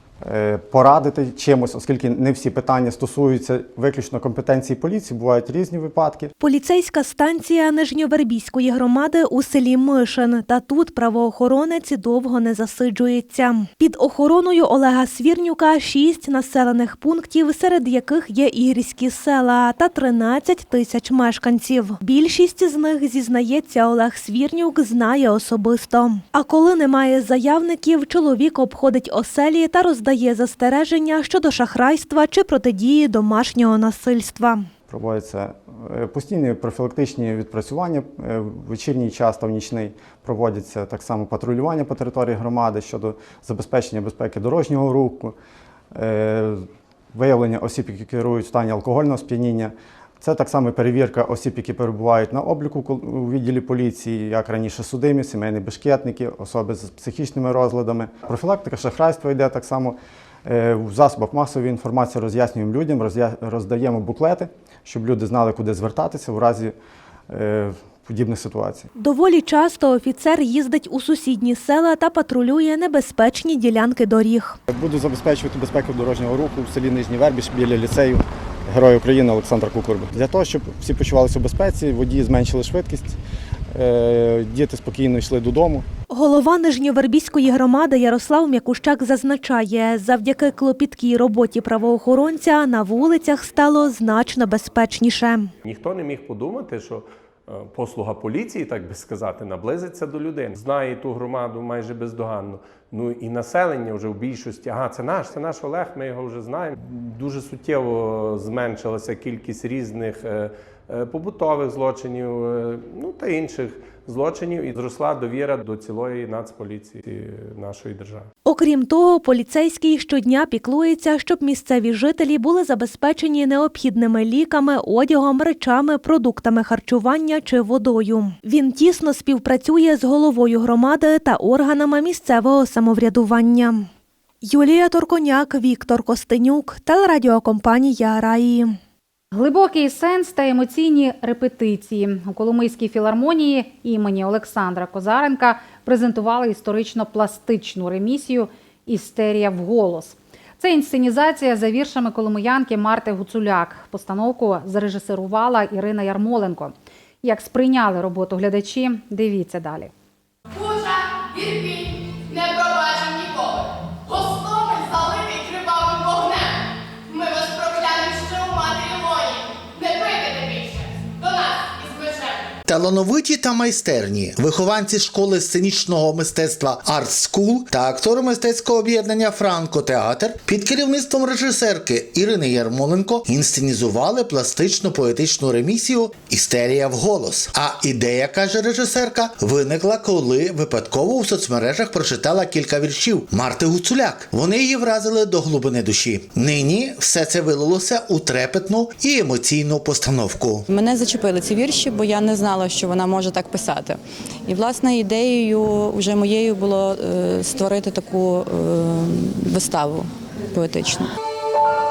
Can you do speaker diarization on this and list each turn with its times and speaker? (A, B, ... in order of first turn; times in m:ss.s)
0:00.2-0:06.3 A
0:06.4-0:34.7 B
0:34.9-0:45.4 A
0:45.9-1:06.7 A
1:07.3-1:08.9 A
1:09.0-1:14.6 B
1:14.7-1:23.2 A
1:23.7-1:25.9 A
1:26.1-1:35.5 B
1:35.6-1:58.3 C
1:58.4-2:13.9 B
2:14.4-2:18.7 B
2:19.3-2:39.9 D
2:40.6-2:41.8 E
2:42.4-2:43.4 E
2:44.1-2:46.4 E
2:47.1-2:52.4 E
2:52.7-3:20.7 F
3:20.7-3:31.1 G